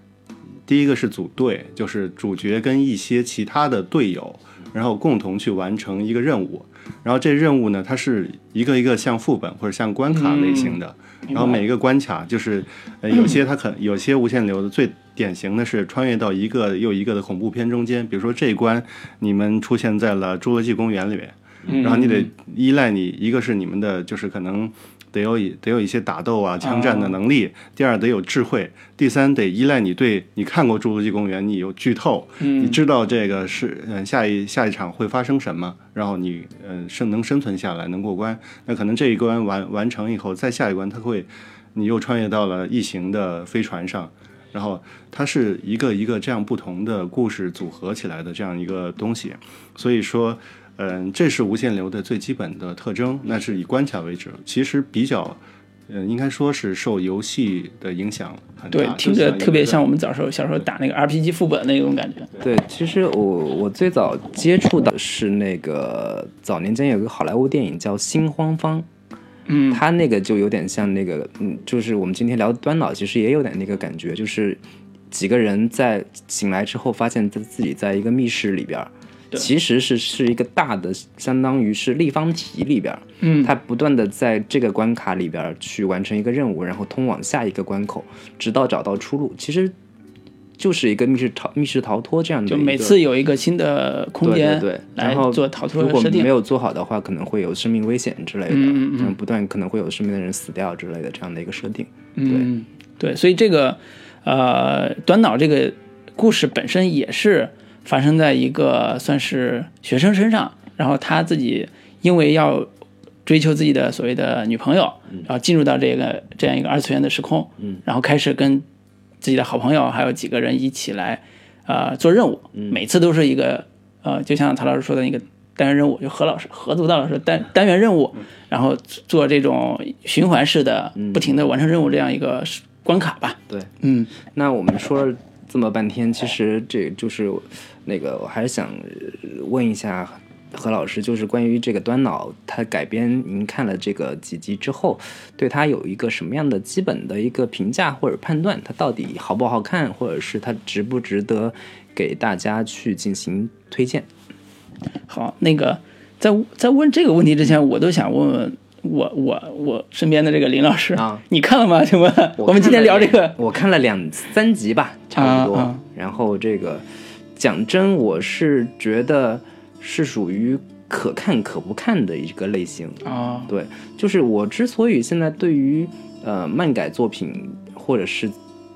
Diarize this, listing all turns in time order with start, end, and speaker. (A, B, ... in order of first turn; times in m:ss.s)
0:00.6-0:59.9 A
0:10.1-0:10.8 B
0:11.3-0:11.6 B
0:21.7-0:22.3 B
0:26.6-0:27.1 B
0:32.4-0:32.8 B
0:58.7-1:02.3 B
1:02.4-1:08.9 C
1:09.5-1:09.8 B
1:09.7-1:29.7 C
1:23.2-1:23.5 B
1:30.6-1:33.0 C
1:32.5-1:36.3 B
1:34.2-1:42.5 C
1:38.5-1:39.1 B
1:42.2-1:52.7 B
1:53.2-1:58.6 B
1:59.2-2:14.1 B
2:02.5-2:02.8 C
2:11.0-2:11.3 C
2:13.5-2:34.1 C
2:35.1-2:43.4 B
2:40.9-2:41.2 C
2:42.4-2:58.3 C
2:45.2-2:45.8 B
2:53.0-2:53.5 B